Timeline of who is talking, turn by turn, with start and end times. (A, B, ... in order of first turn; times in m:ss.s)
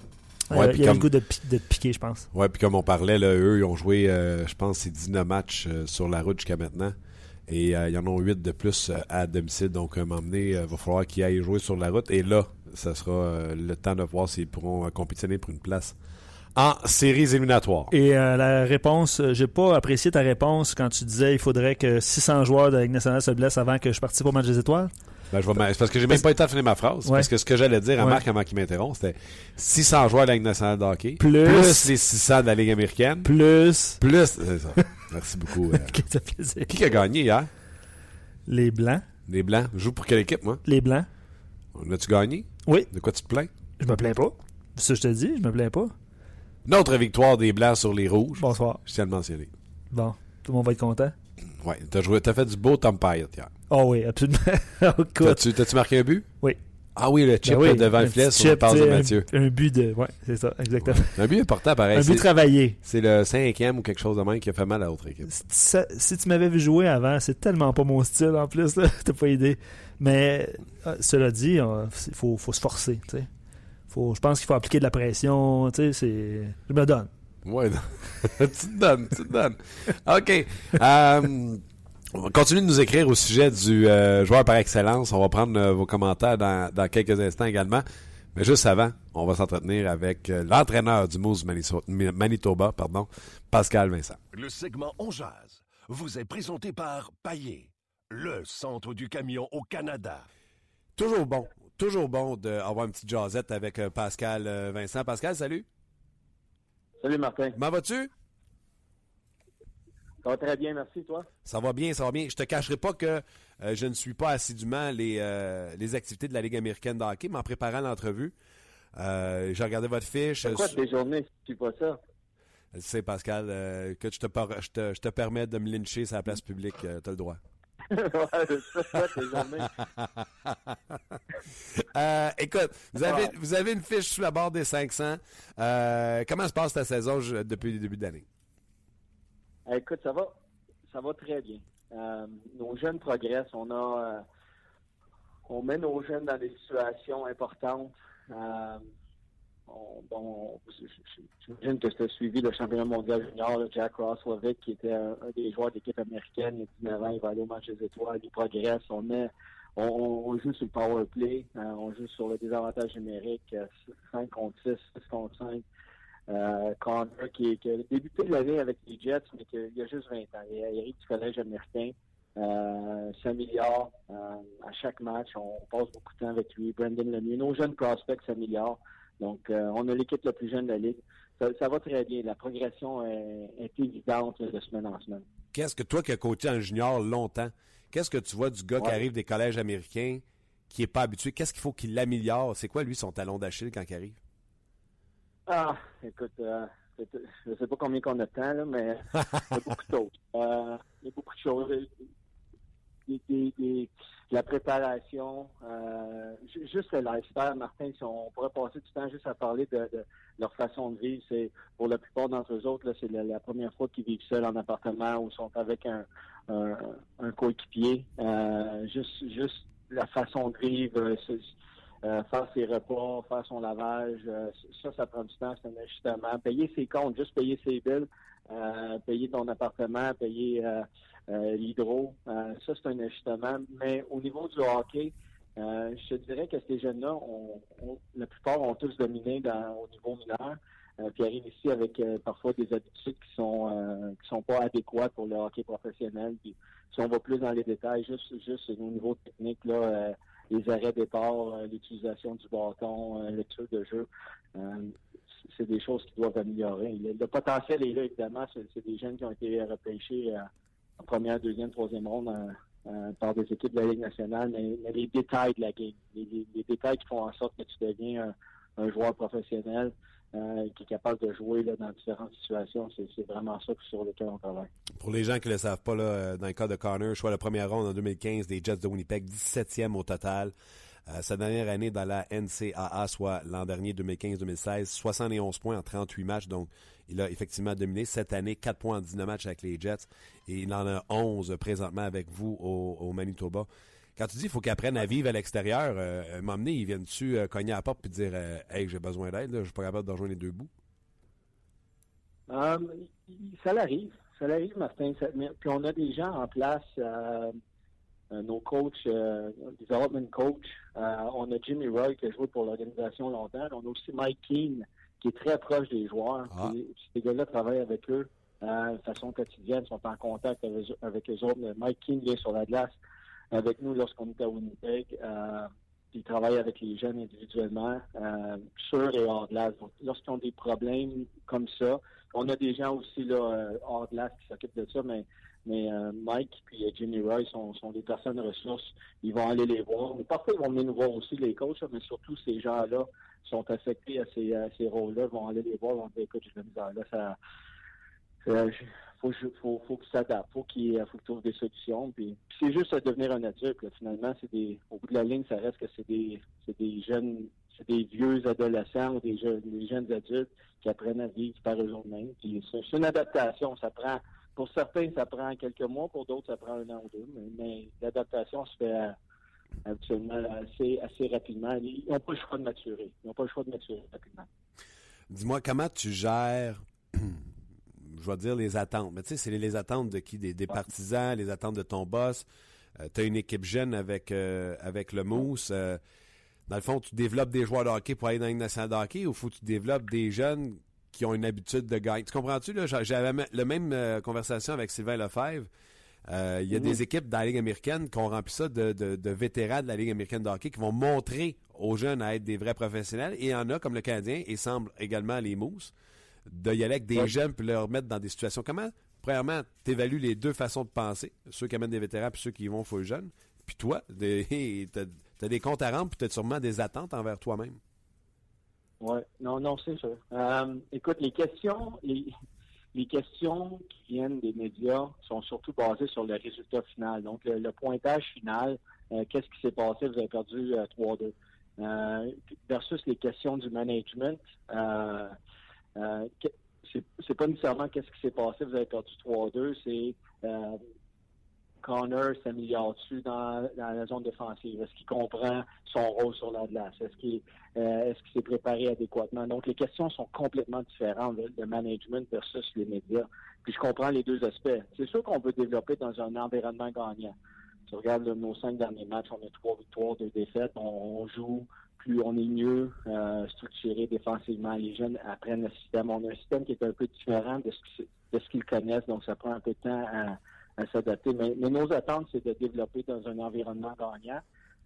0:00.5-0:02.3 A
0:00.5-0:01.1 B
0:02.3-0:07.0 B
0:07.5-0:16.0 B
0:16.6-0:17.9 B
0:17.9-0:24.9 A
0:25.3-0:33.3 B
0:31.2-0:31.9 A
0:33.2-0:34.0 A
0:34.0-0:36.0 B
0:35.7-0:36.8 A
0:36.7-0:37.5 B
0:38.5-0:39.0 A
0:39.3-0:40.6 B
0:40.6-0:41.1 A
0:41.7-0:43.5 B
0:43.8-0:45.9 A
0:46.6-0:49.5 B
0:48.4-0:48.8 A
0:49.9-0:51.1 A
0:51.6-0:53.5 B
0:53.7-0:55.5 A
0:55.2-0:56.3 B
0:57.0-0:59.3 B
0:57.4-1:01.2 A
1:01.0-1:05.3 B
1:01.9-1:02.8 A
1:05.3-1:13.3 A
1:13.9-1:17.1 A
1:17.4-1:21.6 B
1:22.1-1:34.2 B
1:34.3-1:40.3 C
1:41.0-1:45.6 B
1:47.0-1:47.6 D
1:47.6-1:48.1 B
1:50.2-1:51.3 D
1:51.4-1:58.3 B
1:59.0-2:00.8 B
2:00.4-2:02.0 D
2:02.7-2:07.4 B
2:07.9-2:09.7 D
2:10.0-2:10.8 B
2:11.8-2:18.2 B
2:13.0-2:13.3 D
2:19.7-2:20.3 D
2:20.9-2:24.2 D
2:25.5-2:28.8 D
2:29.7-2:30.9 D
2:31.4-2:45.6 D
2:46.3-3:05.2 D
3:05.5-3:14.2 B
3:15.5-3:22.0 D
3:23.1-3:41.5 D
3:42.0-4:15.0 D
4:15.5-4:20.4 D
4:21.0-4:34.7 D
4:35.0-4:40.5 B
4:41.1-5:00.7 B
5:02.5-5:07.6 D
5:08.3-5:23.0 D
5:23.5-5:47.4 D
5:48.4-6:09.2 D
6:09.8-6:14.5 D
6:15.3-6:17.4 B
6:18.1-6:22.4 B
6:23.0-6:26.0 B
6:26.7-6:35.7 B
6:36.3-6:45.9 B
6:36.7-6:37.0 D
6:46.5-6:57.8 B
6:59.0-7:02.3 D
7:02.9-7:15.4 D
7:16.0-7:20.8 D
7:21.8-7:37.4 D
7:37.9-7:54.4 D